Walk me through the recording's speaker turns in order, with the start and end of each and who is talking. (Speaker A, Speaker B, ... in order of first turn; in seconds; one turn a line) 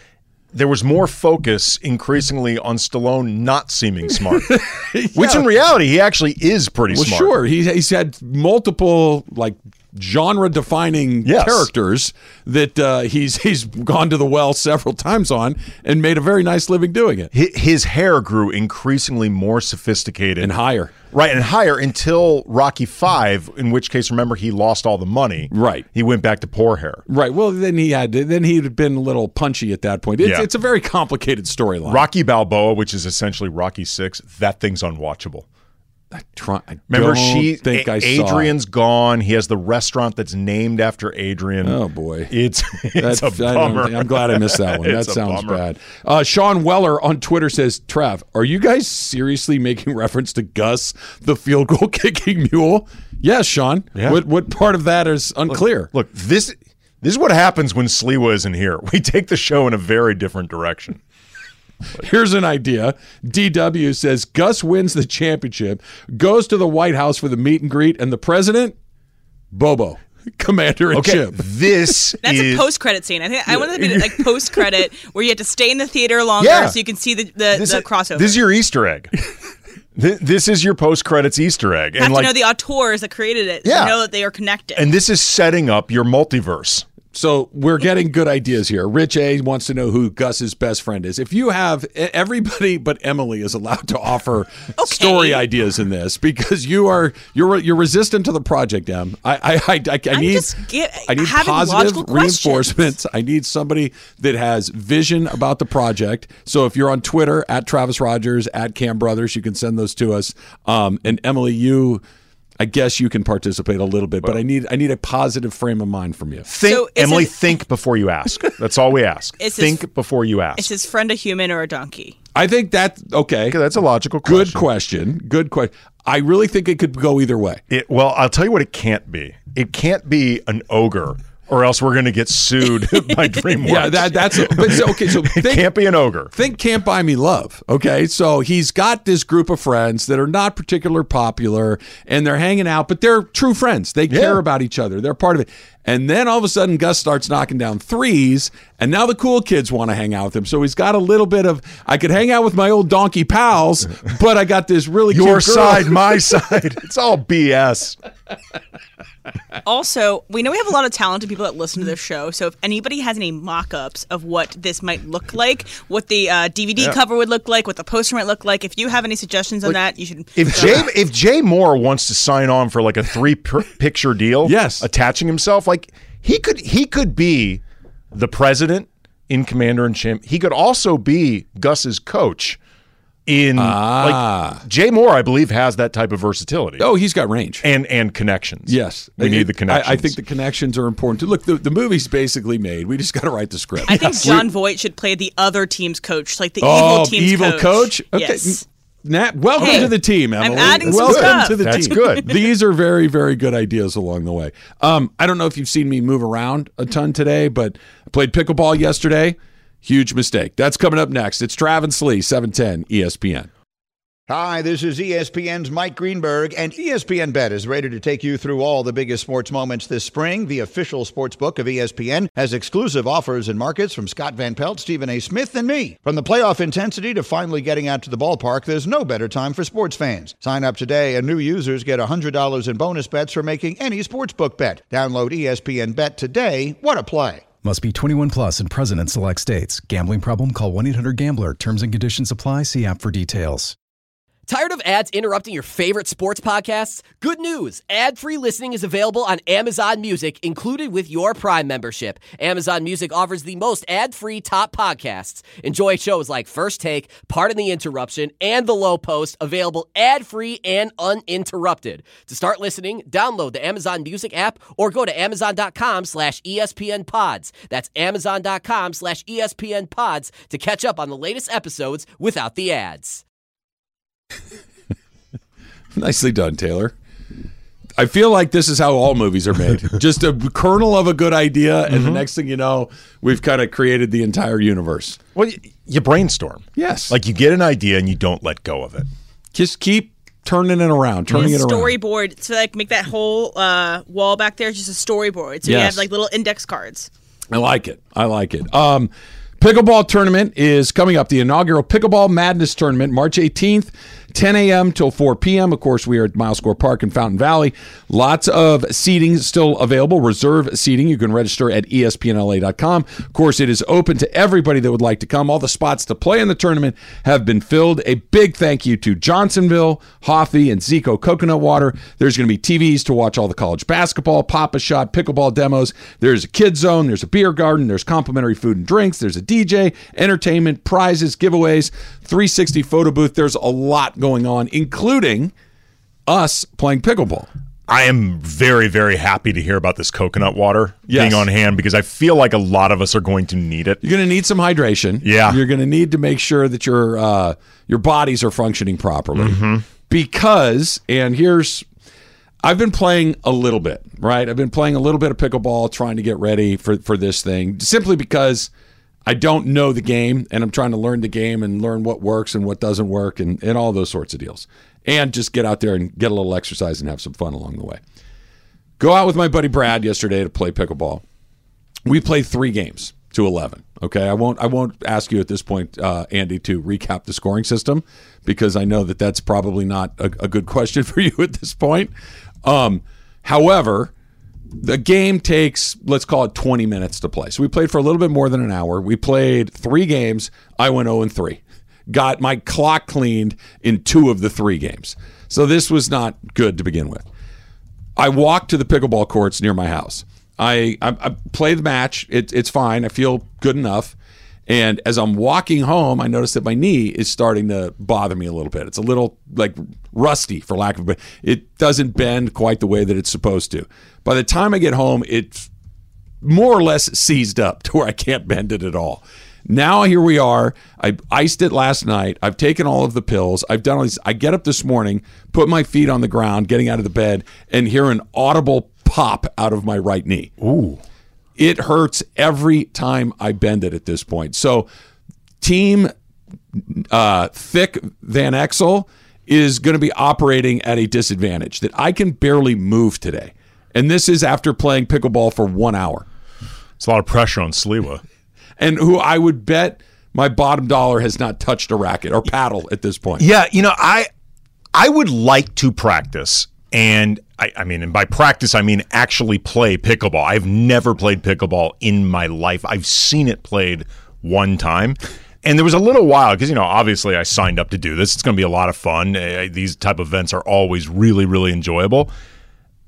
Speaker A: 0.5-4.6
Speaker B: 4.4-5.5
Speaker A: 5.1-7.3
Speaker B: 6.9-17.3
Speaker A: 11.2-11.7
Speaker A: 17.3-20.5
Speaker B: 20.4-20.9
Speaker A: 21.1-27.1
Speaker B: 25.5-25.9
Speaker B: 27.1-32.0
Speaker A: 30.2-30.5
Speaker A: 31.9-35.5
Speaker B: 36.1-38.5
Speaker A: 36.9-41.8
Speaker B: 41.6-42.3
Speaker A: 42.3-45.6
Speaker B: 43.0-55.9
Speaker A: 54.0-54.2
Speaker A: 55.5-61.0
Speaker B: 61.9-68.8
Speaker B: 69.5-71.4
Speaker A: 70.9-72.7
Speaker C: 72.2-78.4
Speaker A: 73.5-74.2
Speaker A: 76.4-76.8
Speaker A: 77.5-79.1
Speaker A: 80.0-82.3
Speaker C: 82.0-84.9
Speaker A: 83.7-84.0
Speaker A: 84.8-86.9
Speaker B: 87.1-100.5
Speaker C: 94.8-95.4
Speaker C: 100.1-102.9
Speaker B: 101.1-112.0
Speaker B: 112.6-116.5
Speaker A: 116.5-120.7
Speaker C: 116.6-117.5
Speaker C: 119.4-119.8
Speaker C: 120.6-122.2
Speaker B: 122.3-123.6
Speaker A: 123.5-124.6
Speaker B: 124.2-127.6
Speaker A: 127.7-136.3
Speaker B: 133.7-135.7
Speaker B: 136.3-156.2
Speaker A: 144.1-144.4
Speaker A: 155.1-158.0
Speaker C: 159.6-170.9
Speaker A: 170.4-182.6
Speaker B: 174.4-174.8
Speaker A: 183.3-186.9
Speaker B: 183.6-184.6
Speaker B: 186.8-187.6
Speaker A: 187.6-190.2
Speaker B: 188.7-194.5
Speaker C: 193.9-198.6
Speaker B: 196.6-213.5
Speaker C: 199.6-202.3
Speaker A: 199.6-199.9
Speaker A: 200.6-202.3
Speaker D: 214.3-237.5
Speaker E: 237.6-243.8
Speaker F: 244.5-273.2
Speaker B: 275.9-276.9
Speaker B: 278.0-285.2
Speaker A: 281.9-282.2
Speaker A: 285.4-289.1
Speaker B: 286.8-287.1
Speaker B: 289.5-291.9
Speaker C: 291.3-297.1
Speaker B: 295.6-296.0
Speaker B: 297.5-335.5
Speaker B: 336.3-337.5
Speaker A: 337.9-344.0
Speaker B: 341.1-341.5
Speaker B: 344.0-351.9
Speaker A: 345.2-345.6
Speaker A: 349.4-349.9
Speaker B: 352.6-358.7
Speaker B: 359.3-368.0
Speaker B: 369.0-371.2
Speaker B: 372.1-382.1
Speaker B: 382.6-384.1
Speaker B: 384.8-397.2
Speaker B: 398.2-404.1
Speaker B: 404.7-415.7
Speaker B: 416.4-430.5
Speaker A: 430.6-431.0
Speaker B: 431.6-434.9
Speaker B: 435.6-436.1
Speaker B: 436.8-446.3
Speaker A: 447.0-448.2
Speaker B: 448.8-453.5
Speaker A: 453.4-454.3
Speaker A: 454.9-472.3